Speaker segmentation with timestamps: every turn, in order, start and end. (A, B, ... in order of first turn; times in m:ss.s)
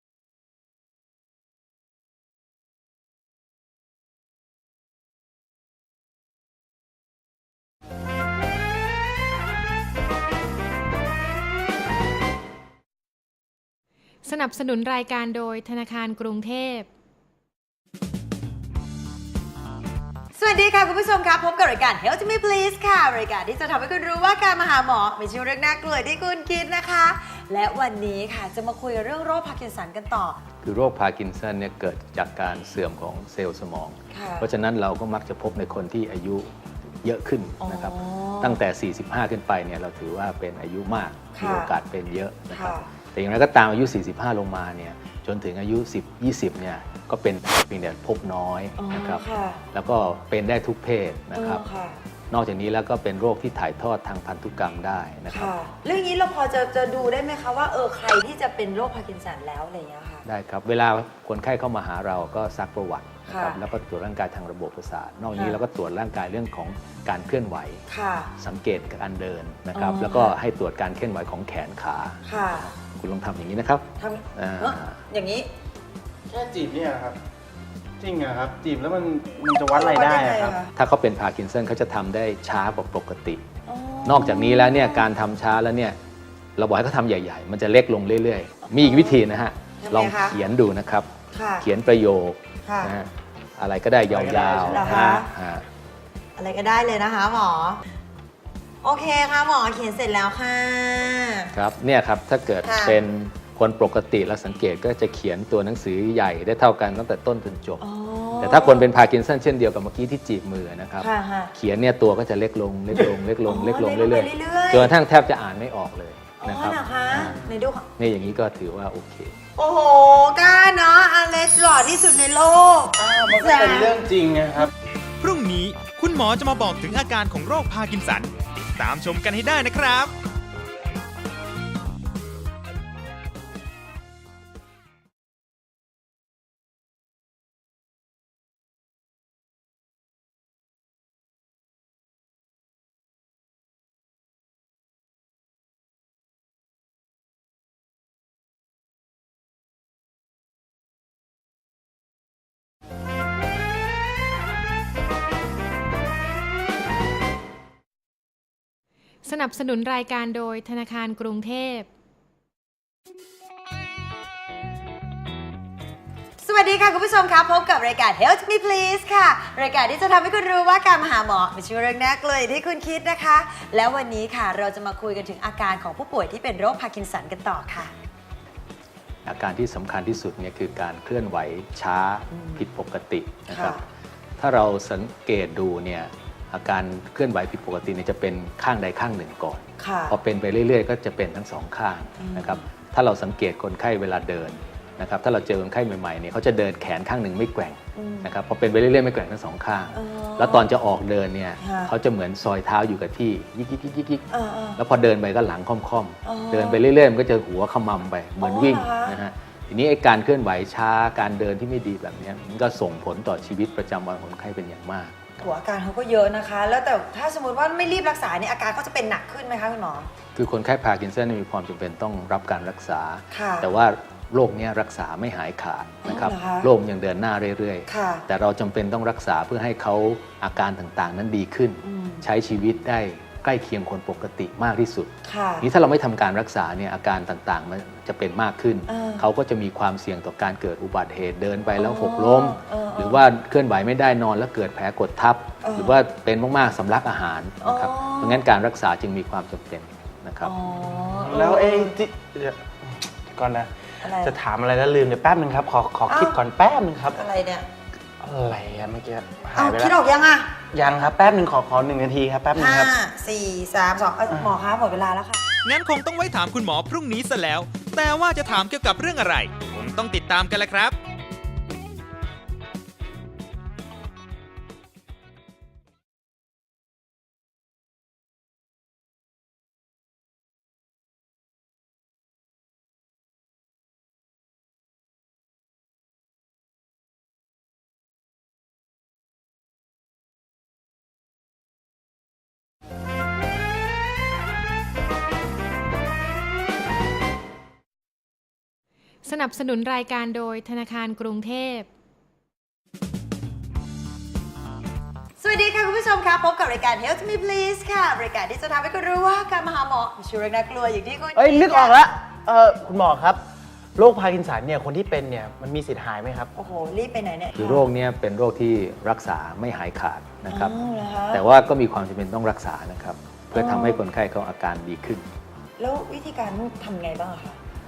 0:14.2-0:16.9 A
0:20.4-0:30.4 B
0:30.6-0:51.6 C
0:34.1-0:34.5 B
0:37.6-0:38.6 B
0:41.3-0:41.7 B
0:42.5-0:42.9 B
0:48.8-0:49.6 B
0:51.3-0:52.0 B
0:52.3-0:55.5 C
0:55.3-1:00.2 B
1:00.2-1:07.8 C
1:03.3-1:03.6 B
1:05.3-1:05.6 B
1:07.9-1:08.3 B
1:08.4-1:15.0 C
1:09.8-1:10.3 B
1:12.2-1:12.7 B
1:14.0-1:15.5 B
1:16.3-1:17.2 D
1:18.0-1:20.6 D
1:19.7-1:20.7 B
1:20.7-1:23.4 C
1:23.7-1:25.1 B
1:24.0-1:26.0 C
1:26.6-1:35.7 C
1:28.8-1:29.2 B
1:29.8-1:30.4 B
1:31.3-1:31.7 B
1:32.6-1:32.9 B
1:34.1-1:35.0 D
1:34.7-1:35.3 B
1:36.4-1:37.8 B
1:38.8-1:41.5 B
1:41.5-1:47.8 C
1:42.6-1:43.0 B
1:47.8-1:48.9 B
1:48.4-1:57.4 C
1:51.0-1:51.5 B
1:53.4-1:54.9 B
1:56.4-1:57.9 B
1:58.0-1:59.4 C
1:59.6-2:04.0 B
2:03.0-2:04.7 D
2:05.2-2:10.1 E
2:39.2-2:41.9 A
2:46.4-2:57.9 B
2:59.2-3:03.8 C
3:02.4-3:02.6 B
3:03.5-3:03.8 B
3:04.4-3:35.4 C
3:09.8-3:10.2 B
3:12.2-3:12.6 B
3:18.0-3:18.3 B
3:19.9-3:20.7 B
3:21.6-3:21.9 B
3:24.3-3:24.8 B
3:26.2-3:26.8 B
3:28.4-3:29.2 B
3:35.4-3:40.1 B
3:40.4-3:55.1 C
3:43.3-3:43.7 B
3:46.0-3:46.7 B
3:47.9-3:48.2 B
3:51.8-3:52.2 B
3:55.2-3:55.7 B
3:55.6-4:10.6 C
3:58.9-3:59.3 B
4:01.8-4:03.2 B
4:05.6-4:06.0 B
4:07.6-4:08.4 B
4:10.4-4:11.9 B
4:11.1-4:17.2 D
4:14.0-4:14.4 B
4:16.1-4:16.4 B
4:17.1-4:17.7 B
4:18.2-4:20.0 D
4:19.6-4:20.6 B
4:20.6-4:23.0 D
4:22.6-4:25.4 B
4:25.6-4:31.0 E
4:59.2-5:01.9 A
5:05.4-5:12.0 B
5:11.4-5:13.4 D
5:14.0-5:16.5 D
5:16.6-5:17.9 B
5:17.6-5:20.8 C
5:20.5-5:21.4 B
5:21.3-5:25.3 C
5:23.5-5:24.0 B
5:25.8-5:27.6 B